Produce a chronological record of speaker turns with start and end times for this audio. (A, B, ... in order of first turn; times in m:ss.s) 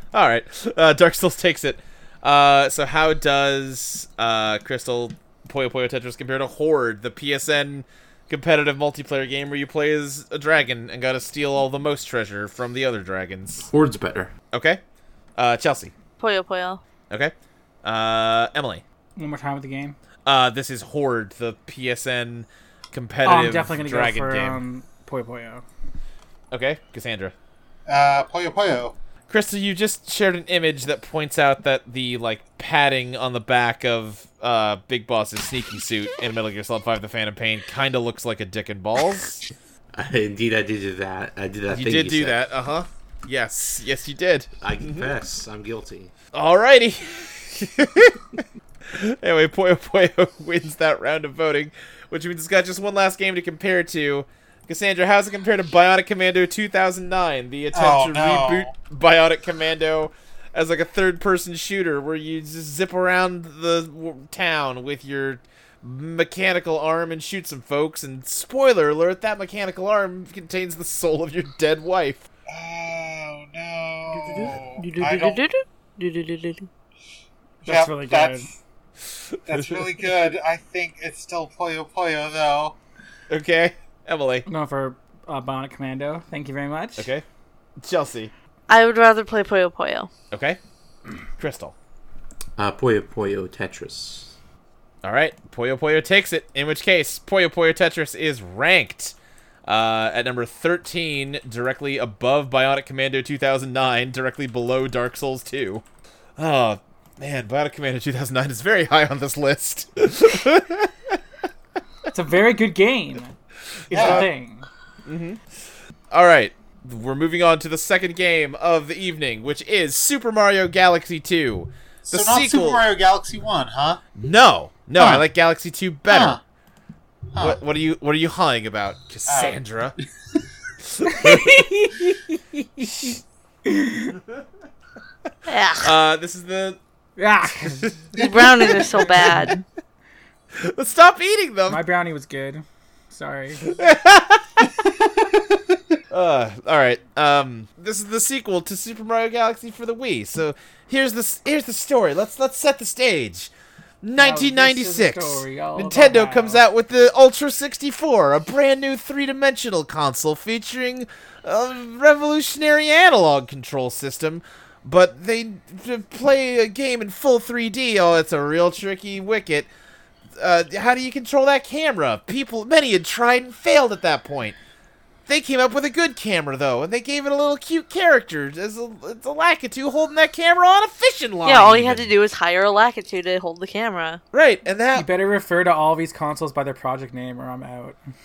0:00.1-0:13.7 A
0:13.6-0:14.3 B
0:14.5-0:14.8 A
0:15.4-0:15.9 A
0:16.2-0:16.8 C
0:17.8-0:18.8 A
0:19.2-0:20.0 D
0:20.3-0:24.6 A
0:23.2-0:25.6 D
0:26.5-0:27.3 A
0:27.9-0:29.0 E
0:29.3-0:39.4 A
0:39.9-0:42.4 B
0:41.7-0:45.1 A
0:44.6-0:46.1 B
0:46.3-0:48.2 A
0:48.9-1:12.2 A
0:57.7-0:58.8 E
1:12.5-1:15.4 E
1:14.1-1:16.7 C
1:17.6-1:18.5 E
1:17.6-1:18.5 D
1:19.5-1:22.8 E
1:19.5-1:19.8 A
1:23.3-1:24.5 A
1:24.5-1:27.1 D
1:27.0-1:27.2 A
1:27.8-1:28.3 A
1:28.7-1:30.1 C
1:30.3-1:30.6 A
1:31.4-1:31.8 A
1:32.6-1:34.4 B
1:35.0-1:39.2 A
1:39.7-1:45.8 A
1:46.4-1:51.2 A
1:52.1-1:53.3 D
1:53.9-1:54.7 D
1:53.9-1:54.3 A
1:53.9-1:54.3 E
1:55.1-1:55.4 A
1:56.1-2:02.8 A
2:02.1-2:04.0 E
2:04.2-2:06.4 A
2:05.0-2:05.2 E
2:06.1-2:06.4 E
2:07.3-2:07.6 E
2:07.4-2:10.0 A
2:09.3-2:09.6 E
2:11.0-2:11.6 A
2:11.0-2:14.2 D
2:15.5-2:15.9 C
2:15.8-2:16.8 A
2:17.2-2:17.9 D
2:17.6-2:18.1 A
2:18.2-2:19.3 E
2:18.2-2:19.6 C
2:18.8-2:19.5 A
2:20.6-2:21.8 A
2:21.7-2:23.8 D
2:23.6-2:24.7 A
2:25.1-2:25.6 E
2:26.1-2:33.5 A
2:34.0-2:49.7 A
2:34.2-2:36.6 D
2:50.4-2:54.6 A
2:55.3-3:02.1 A
3:01.4-3:04.2 C
3:04.3-3:05.1 A
3:04.9-3:08.0 D